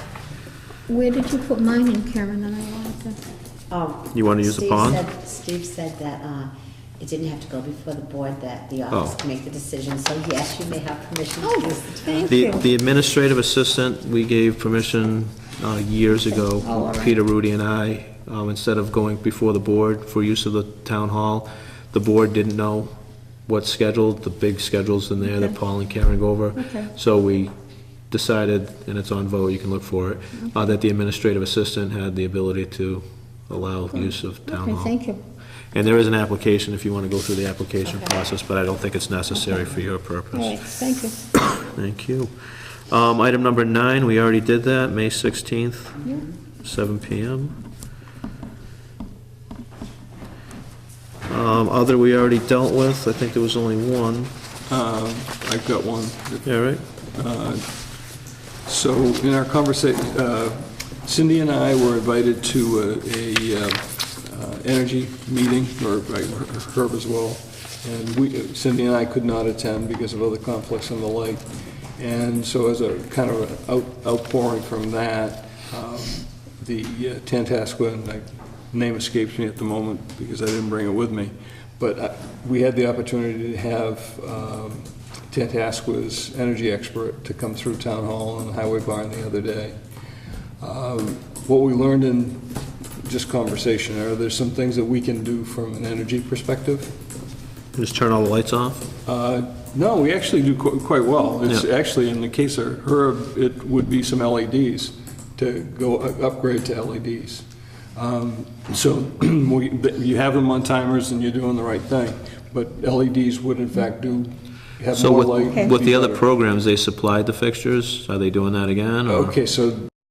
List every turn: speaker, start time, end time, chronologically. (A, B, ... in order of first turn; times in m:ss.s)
0:00.9-0:03.2 A
0:03.7-0:12.5 B
0:04.1-0:05.0 C
0:08.9-0:09.2 C
0:11.4-0:12.6 A
0:12.3-0:22.9 C
0:16.6-0:17.2 A
0:23.4-0:27.5 C
0:26.6-0:26.9 A
0:28.1-0:34.9 C
0:34.1-0:35.2 A
0:35.7-0:40.7 C
0:40.3-0:41.3 A
0:41.6-0:47.6 C
0:51.3-0:54.3 C
0:54.7-0:57.8 D
0:56.4-0:56.8 C
0:58.6-1:11.4 D
1:12.0-1:29.8 D
1:30.6-1:36.9 D
1:37.8-1:38.9 C
1:39.0-1:56.2 D
1:54.9-1:59.4 C
1:59.1-1:59.9 D